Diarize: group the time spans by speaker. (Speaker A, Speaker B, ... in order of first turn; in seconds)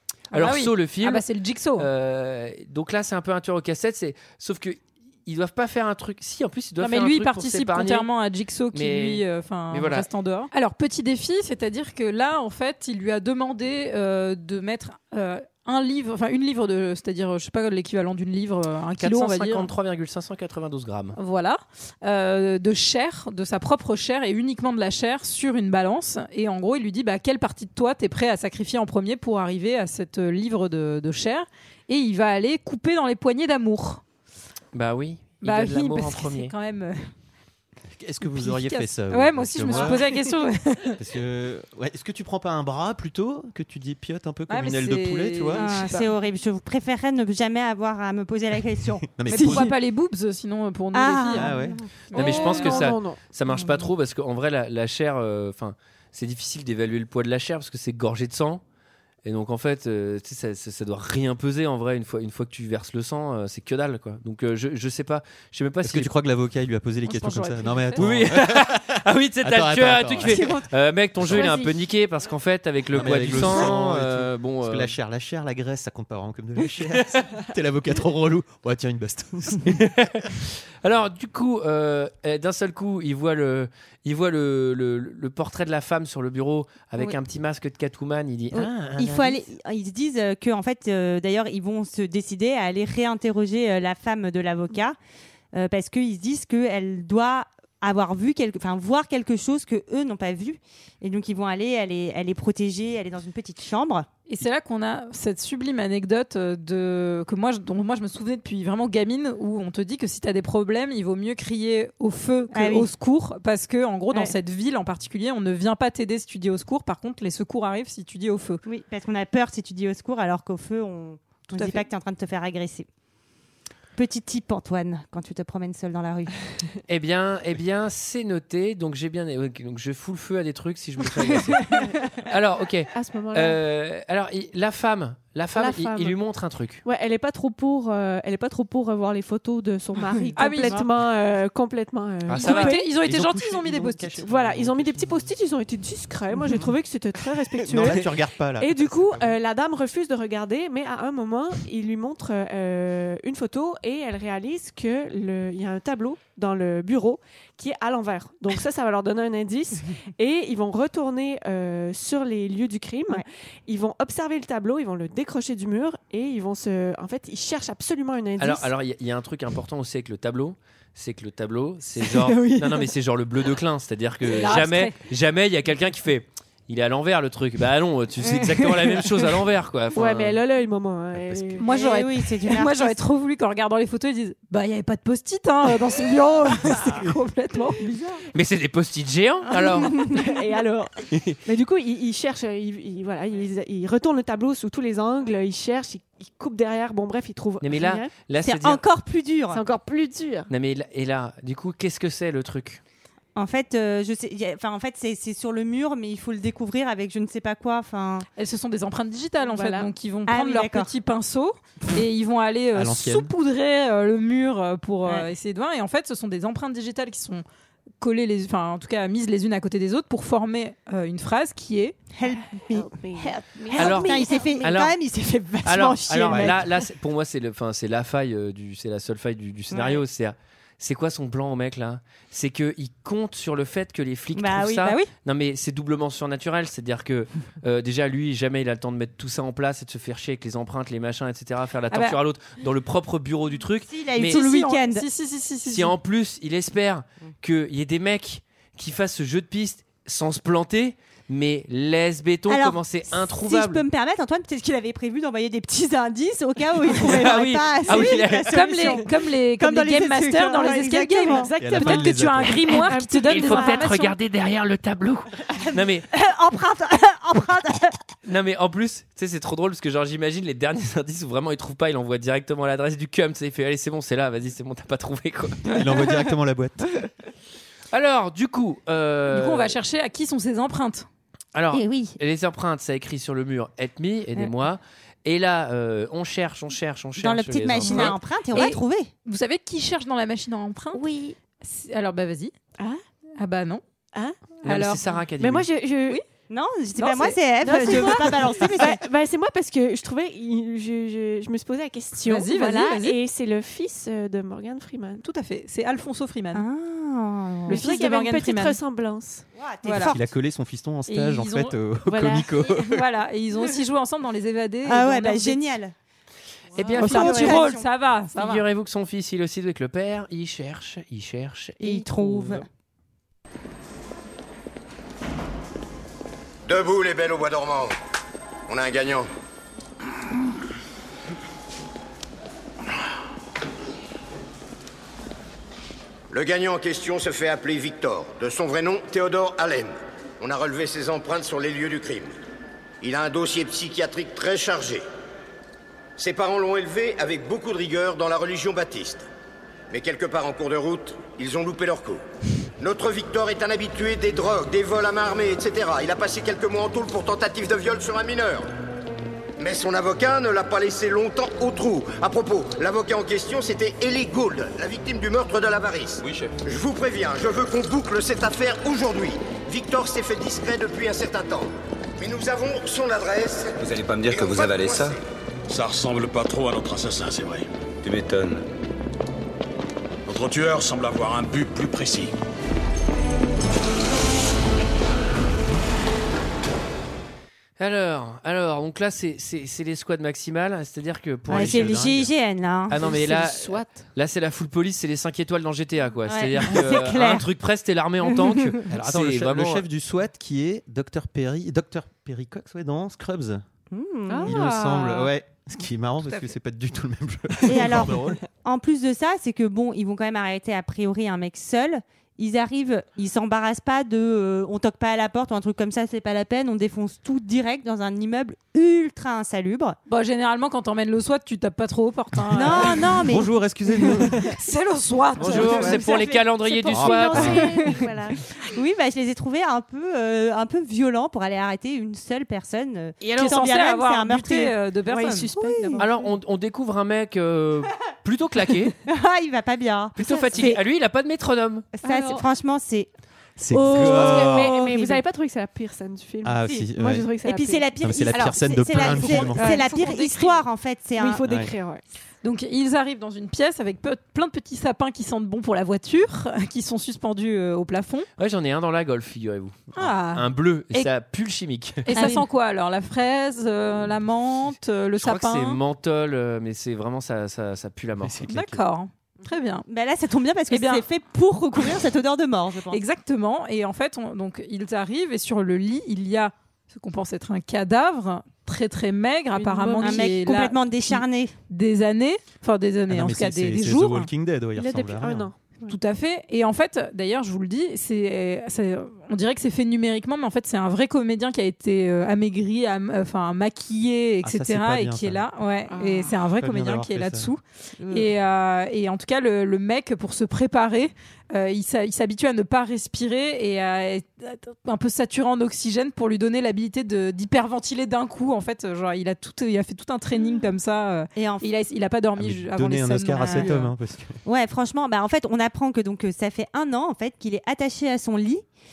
Speaker A: 0.3-1.2, 1.8-8.1, 8.7-10.1, 19.0-21.2, 34.7-36.5, 52.1-58.6, 59.2-66.1, 68.0-74.9, 79.8-89.4, 126.9-136.8, 142.2-142.8, 168.4-180.4, 188.3-190.1, 197.6-198.8, 200.5-202.8, 223.7-224.9, 225.6-244.4, 245.7-253.8, 257.0-258.8, 263.2-266.1, 268.2-275.8, 277.9-279.7, 281.5-288.2, 294.6-295.6, 316.7-317.7, 318.3-322.6, 387.8-392.1, 392.9-399.9, 425.4-427.6, 436.0-438.9, 440.2-441.9, 458.4-462.1, 465.2-468.5
Speaker B: 0.3-1.9, 6.8-19.7, 21.1-34.0, 35.4-37.1, 38.2-41.0, 44.5-46.0, 49.3-52.9, 67.0-68.1, 104.3-118.6, 121.5-121.8, 140.3-140.8, 142.4-144.2, 174.2-174.9, 181.6-187.9, 208.4-217.4, 218.0-222.0, 241.9-242.2, 244.2-245.9, 257.9-264.1, 279.3-281.1, 287.8-291.1, 291.6-292.5, 293.4-293.8, 294.6-295.0, 297.0-298.3, 302.2-303.2, 305.2-306.6, 307.6-308.8, 309.8-310.1, 311.1-311.8, 312.7-315.6, 316.9-318.6, 420.1-423.2, 424.1-426.0, 433.3-435.5, 449.0-450.4, 452.4-458.3, 459.9-461.1, 462.1-465.8, 468.5-469.9, 470.7-471.0, 472.9-484.3, 485.9-513.9
Speaker C: 38.0-40.1, 40.9-45.7, 49.0-49.7, 51.3-51.8, 65.8-70.6, 72.9-79.9, 142.9-145.3, 147.6-149.3, 181.1-181.6, 212.7-213.3, 261.6-262.7, 275.7-276.9, 310.0-313.0, 391.5-392.3, 398.9-403.6, 404.4-408.4, 422.5-424.6, 425.6-426.0, 426.9-428.0, 443.6-444.7, 446.4-447.3, 448.0-449.8, 451.4-451.7, 468.2-468.8, 483.1-485.5, 494.4-495.4, 496.5-497.5, 512.4-514.4
Speaker D: 45.5-49.7, 50.9-51.8, 53.5-53.9, 88.5-95.0, 95.5-104.1, 112.5-112.9, 118.6-122.9, 123.9-126.4, 140.1-140.8, 178.3-178.9, 181.6-182.9, 189.5-190.3, 198.4-199.6, 203.3-208.3, 210.3-210.9, 222.2-226.7, 229.7-230.0, 234.3-235.1, 243.9-245.1, 252.5-261.5, 266.1-268.0, 281.7-282.2, 287.2-289.1, 290.9-291.4, 296.5-299.0, 306.5-307.8, 309.5-310.3, 314.8-315.9, 316.8-317.9, 321.8-322.6, 391.5-393.1, 396.3-397.4, 403.9-404.6, 407.6-420.0, 422.5-424.3, 425.5-428.0, 428.6-434.8, 435.5-436.0, 439.1-440.8, 442.0-443.1, 443.9-445.2, 447.4-451.4, 462.1-462.4, 469.9-473.0, 480.0-481.5, 498.0-498.3, 511.4-511.7, 513.4-513.8, 514.4-518.6
Speaker E: 52.1-53.2, 131.6-132.0, 132.9-133.6, 135.5-136.2, 136.8-142.9, 144.2-168.7, 172.0-172.9, 179.9-182.0, 187.8-188.2, 190.0-198.1, 199.5-200.5, 209.4-209.9, 222.7-224.7, 261.2-263.9, 294.1-294.6, 295.4-296.2, 297.6-305.2, 307.7-309.4, 312.1-312.6, 392.9-394.1, 404.3-405.3, 425.8-426.0, 426.6-428.4, 433.2-433.6, 435.1-436.3, 440.2-440.7, 442.0-442.4, 443.7-450.6, 451.1-452.0, 479.5-480.4, 484.8-485.9, 495.9-496.3
Speaker F: 326.6-327.9, 328.7-329.3, 336.3-342.3, 343.0-345.0, 346.2-349.2, 349.9-352.2, 352.8-358.6, 359.6-375.2
Speaker G: 373.8-375.1, 378.0-378.6
Speaker H: 375.7-377.7, 380.2-382.3